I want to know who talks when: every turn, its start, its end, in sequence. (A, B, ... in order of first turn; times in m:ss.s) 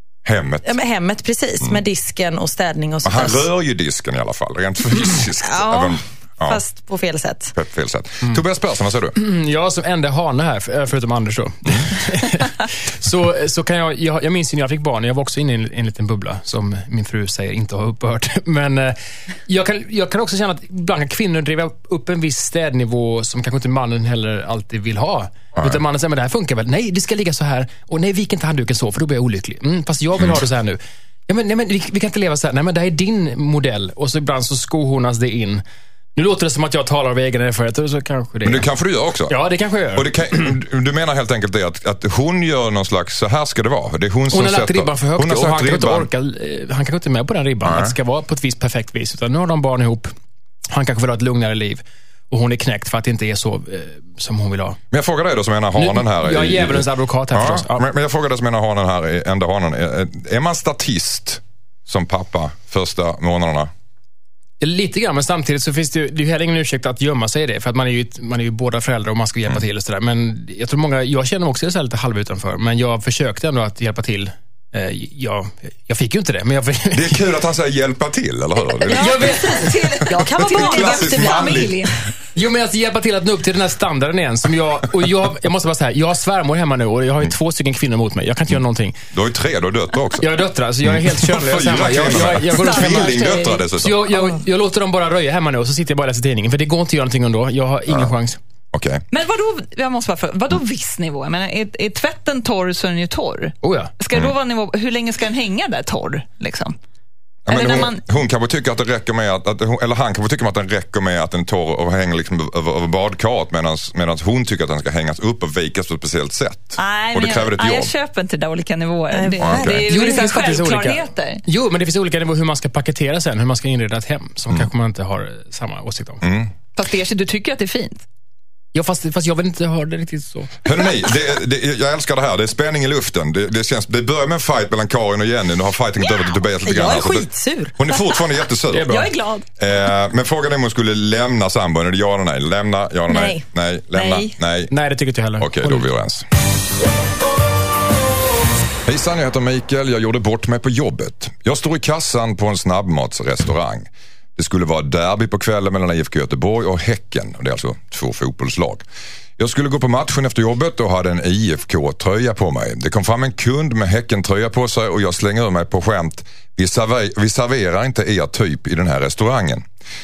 0:00.2-0:00.8 A
0:00.6-0:03.4 B
0:03.0-0:06.6 A
0:05.4-0:07.5 B
0:07.5-0:09.2 A
0:09.2-0:35.6 C
0:25.6-0:25.8 A
0:36.1-0:38.7 C
0:38.4-0:39.4 A
0:39.3-0:40.5 C
0:39.9-0:46.1 A
0:44.3-0:50.1 C
0:47.6-0:47.9 A
0:50.7-0:54.8 C
0:54.9-1:03.7 A
0:55.8-0:57.8 C
1:04.6-1:17.2 C
1:16.9-1:19.3 A
1:18.8-1:21.9 B
1:18.9-1:22.0 D
1:18.9-1:19.7 C
1:20.1-1:21.9 A
1:22.3-1:29.0 C
1:29.1-1:30.3 A
1:30.2-1:38.4 C
1:30.8-1:34.1 A
1:32.5-1:33.6 D
1:38.7-1:39.0 A
1:39.1-1:46.7 D
1:43.6-1:43.9 C
1:47.4-1:57.9 A
1:47.5-1:48.0 D
1:56.8-2:01.4 D
1:59.1-2:00.2 B
1:59.4-1:59.8 A
1:59.9-2:06.2 C
2:06.2-2:06.5 A
2:06.8-2:08.0 D
2:08.7-2:10.6 C
2:10.6-2:19.0 A
2:16.0-2:16.4 D
2:16.6-2:17.7 B
2:18.7-2:19.1 C
2:18.8-2:19.5 D
2:19.6-2:24.7 A
2:23.1-2:23.4 B
2:23.9-2:24.3 D
2:24.7-2:25.9 C
2:25.4-2:26.2 A
2:28.8-2:38.8 A
2:39.4-2:49.6 A